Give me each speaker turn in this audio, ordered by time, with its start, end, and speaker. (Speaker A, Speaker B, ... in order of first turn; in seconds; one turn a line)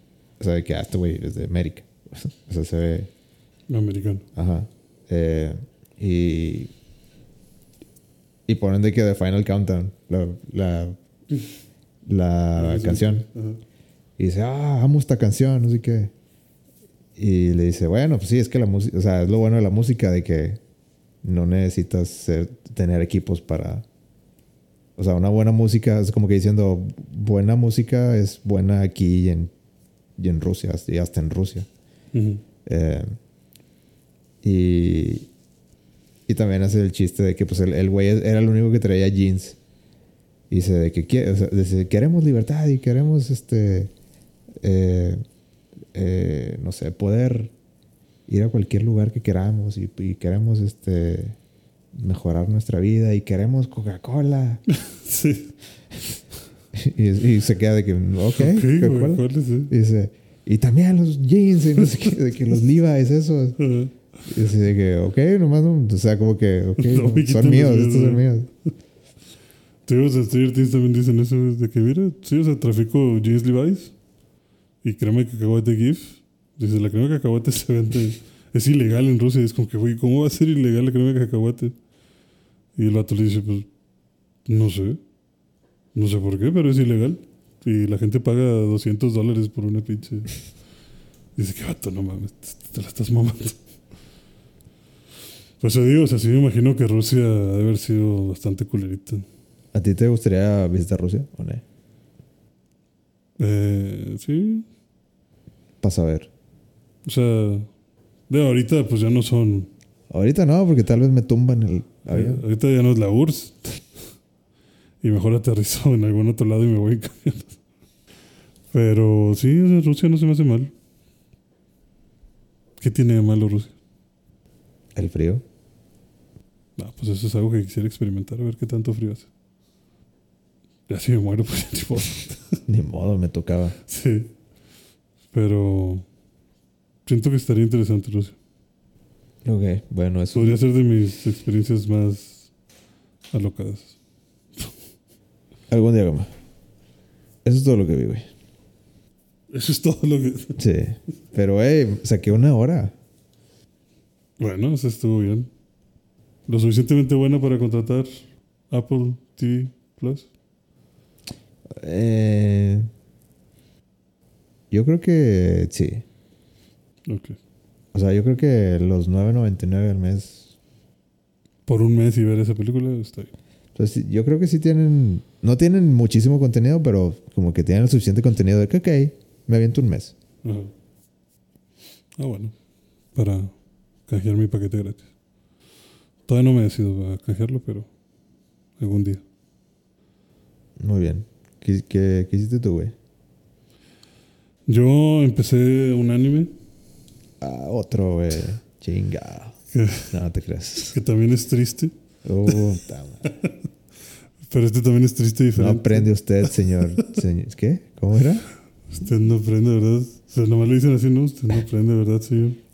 Speaker A: 0.4-3.1
Speaker B: 3.7-4.2
Speaker A: 4.3-6.7
Speaker A: 8.5-11.0
Speaker A: 12.1-13.3
Speaker B: 12.6-13.6
Speaker A: 14.2-16.1
Speaker A: 17.2-20.6
Speaker A: 21.2-23.9
Speaker A: 25.0-29.5
Speaker A: 30.2-31.7
Speaker B: 32.1-32.4
Speaker A: 32.6-33.1
Speaker A: 34.4-35.3
Speaker A: 36.3-39.6
Speaker A: 40.5-43.9
Speaker A: 44.6-45.2
Speaker A: 45.9-47.5
Speaker A: 48.3-51.4
Speaker A: 51.9-54.6
Speaker B: 54.7-55.5
Speaker A: 56.7-63.6
Speaker B: 58.4-59.7
Speaker B: 63.6-63.9
Speaker A: 64.3-68.5
Speaker B: 66.8-68.2
Speaker B: 69.9-73.9
Speaker B: 74.8-81.8
Speaker B: 82.8-83.7
Speaker B: 84.5-85.0
Speaker B: 85.9-90.3
Speaker B: 91.4-93.6
Speaker B: 95.6-99.3
Speaker A: 99.7-101.6
Speaker B: 103.4-104.7
Speaker A: 105.8-106.3
Speaker B: 107.0-107.7
Speaker B: 108.3-109.7
Speaker A: 110.1-112.4
Speaker B: 112.0-113.9
Speaker B: 115.0-117.6
Speaker B: 118.7-120.7
Speaker B: 122.8-123.7
Speaker A: 125.0-125.4
Speaker B: 126.8-129.3
Speaker B: 130.9-132.6
Speaker A: 132.7-133.8
Speaker B: 133.9-134.3
Speaker B: 135.3-136.1
Speaker B: 137.1-138.4
Speaker A: 139.4-140.6
Speaker B: 140.3-142.5
Speaker B: 143.3-143.9
Speaker A: 145.7-146.3
Speaker A: 147.4-148.3
Speaker B: 149.5-150.6
Speaker A: 150.6-152.9
Speaker B: 154.4-155.5
Speaker B: 156.5-160.3
Speaker A: 161.7-162.9
Speaker A: 164.7-166.0
Speaker B: 167.1-167.4
Speaker A: 167.9-170.5
Speaker B: 171.7-173.3
Speaker A: 173.8-180.1
Speaker B: 180.4-180.7
Speaker B: 182.2-182.5
Speaker B: 183.2-183.5
Speaker B: 184.1-185.0
Speaker B: 186.3-187.9
Speaker B: 188.8-189.2
Speaker A: 190.8-192.9
Speaker B: 194.7-196.5
Speaker A: 197.4-199.6
Speaker B: 199.7-200.1
Speaker A: 200.1-201.0
Speaker B: 200.9-201.9
Speaker A: 202.2-203.2
Speaker B: 204.5-206.1
Speaker A: 205.6-208.5
Speaker B: 208.9-212.6